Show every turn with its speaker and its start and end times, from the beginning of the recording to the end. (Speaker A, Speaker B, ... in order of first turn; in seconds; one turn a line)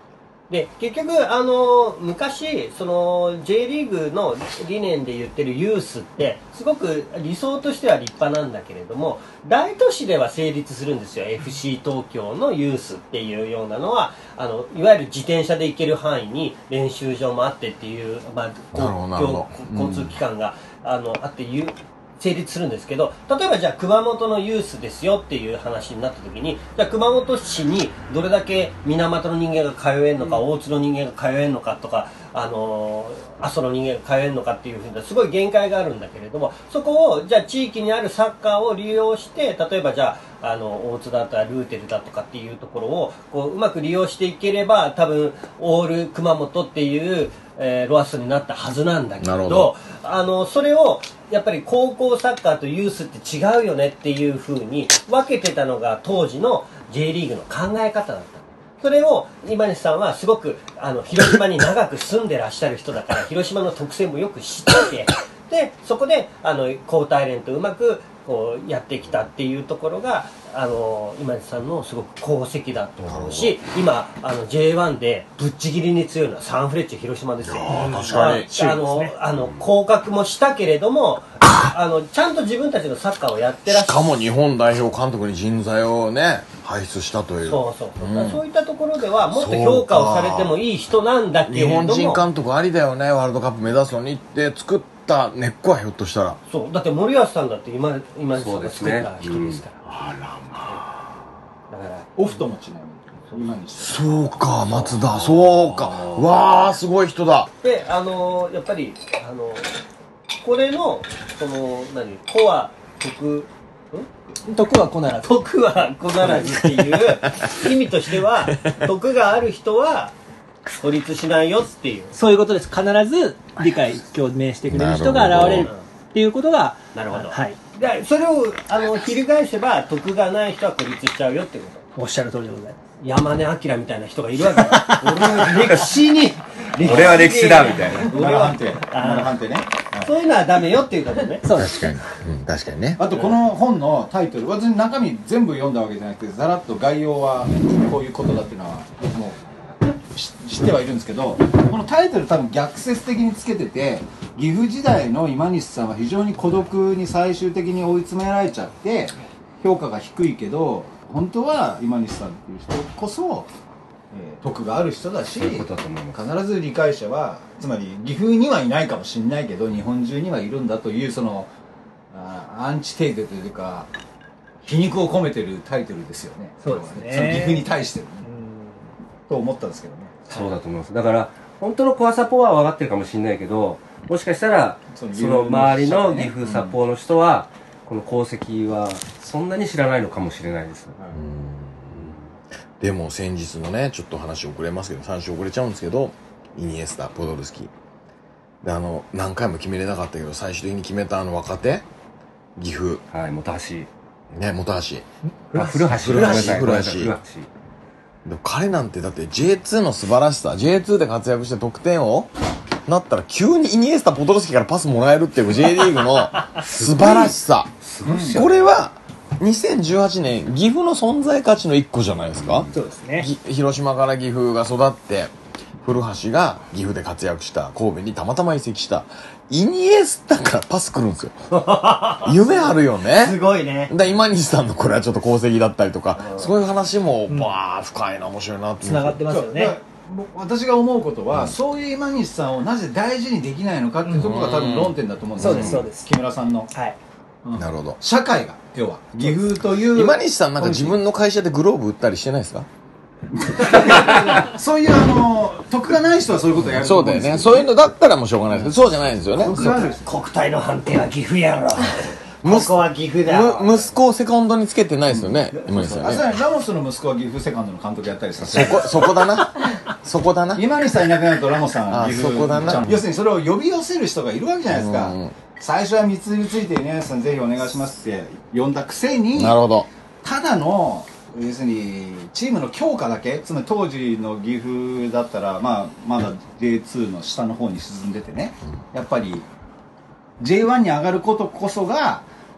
Speaker A: 0.5-84.1
Speaker B: 18.7-20.1
Speaker B: 49.2-49.7
Speaker B: 73.0-73.6
Speaker B: 77.4-78.5
Speaker C: 77.9-79.1
Speaker B: 83.7-88.4
Speaker A: 87.4-92.2
Speaker B: 89.3-90.6
Speaker B: 91.5-96.4
Speaker A: 96.5-99.8
Speaker D: 98.3-99.6
Speaker B: 99.9-101.0
Speaker A: 101.7-102.5
Speaker E: 102.2-104.2
Speaker B: 103.8-107.5
Speaker D: 105.0-106.2
Speaker A: 107.6-109.7
Speaker A: 110.4-114.1
Speaker C: 114.5-115.4
Speaker A: 115.2-120.1
Speaker B: 116.3-117.5
Speaker B: 118.5-118.9
Speaker A: 120.7-122.2
Speaker C: 122.1-127.6
Speaker B: 124.7-125.7
Speaker A: 125.4-125.8
Speaker A: 126.9-131.8
Speaker C: 131.9-132.8
Speaker A: 133.0-139.4
Speaker C: 134.6-135.4
Speaker E: 136.8-140.1
Speaker D: 136.8-138.0
Speaker A: 140.0-141.5
Speaker C: 141.4-141.8
Speaker B: 141.5-143.0
Speaker E: 143.0-149.4
Speaker E: 150.0-163.5
Speaker E: 164.1-171.5
Speaker D: 165.3-166.2
Speaker E: 172.1-173.9
Speaker E: 174.6-178.2
Speaker C: 176.6-177.7
Speaker C: 178.2-178.8
Speaker E: 179.3-180.3
Speaker D: 180.3-191.0
Speaker E: 184.9-186.7
Speaker B: 191.1-192.1
Speaker D: 191.9-192.2
Speaker B: 192.8-197.7
Speaker B: 198.6-201.8
Speaker B: 202.6-203.0
Speaker D: 203.1-203.9
Speaker B: 204.3-205.0
Speaker C: 205.5-205.9
Speaker D: 205.5-207.5
Speaker B: 205.9-207.1
Speaker B: 208.2-212.3
Speaker B: 212.8-217.7
Speaker D: 216.7-217.3
Speaker D: 217.9-218.6
Speaker E: 218.0-218.4
Speaker B: 218.3-231.4
Speaker C: 222.7-223.3
Speaker A: 231.5-233.9
Speaker B: 232.2-239.2
Speaker C: 238.8-239.8
Speaker E: 239.3-246.7
Speaker C: 244.0-244.3
Speaker B: 244.1-245.8
Speaker C: 245.4-246.1
Speaker C: 246.7-247.0
Speaker E: 247.4-251.0
Speaker B: 247.6-248.0
Speaker B: 249.7-252.7
Speaker E: 253.4-257.7
Speaker B: 256.7-259.9
Speaker E: 259.4-260.1
Speaker A: 259.9-263.9
Speaker B: 262.4-266.4
Speaker E: 265.6-269.2
Speaker B: 268.4-270.8
Speaker E: 270.5-279.6
Speaker B: 271.9-273.1
Speaker B: 274.7-275.4
Speaker B: 279.3-279.9
Speaker E: 280.2-289.4
Speaker E: 290.4-292.2